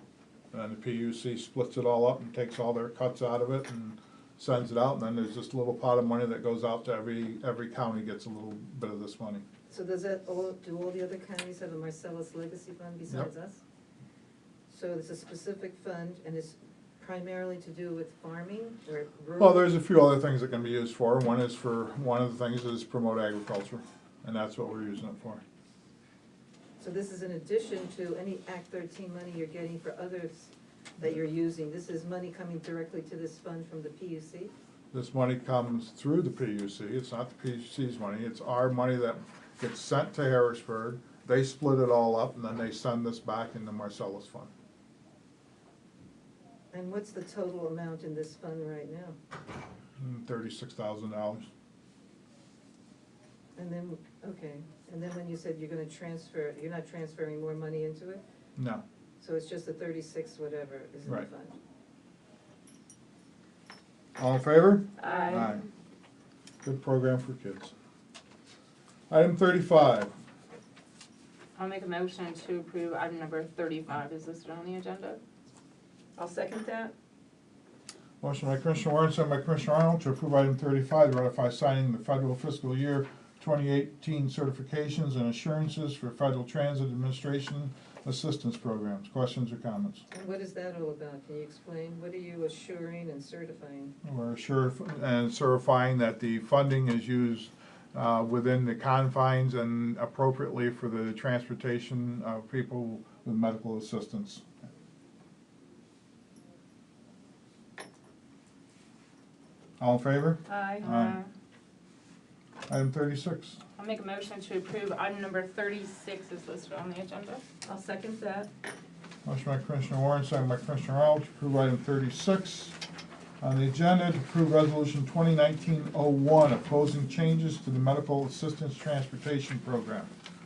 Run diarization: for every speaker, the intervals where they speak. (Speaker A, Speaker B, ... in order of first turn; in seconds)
Speaker A: 0.5-9.4, 19.4-25.4, 34.9-44.5, 50.0-51.5, 58.6-58.8, 64.2-65.7, 66.6-67.7, 69.1-70.1, 78.2-90.1, 94.0-104.4, 109.8-111.2, 112.7-113.6, 119.2-122.8, 123.4-130.1
Speaker B: 9.7-13.6, 14.7-19.7, 26.8-34.5, 46.7-49.2, 53.6-58.2, 59.2-61.6, 90.1-94.0
Speaker C: 65.0-65.5, 76.2-76.9, 110.5-110.8, 117.6-118.5
Speaker D: 65.0-65.5, 71.6-75.2, 110.5-111.3, 113.8-117.4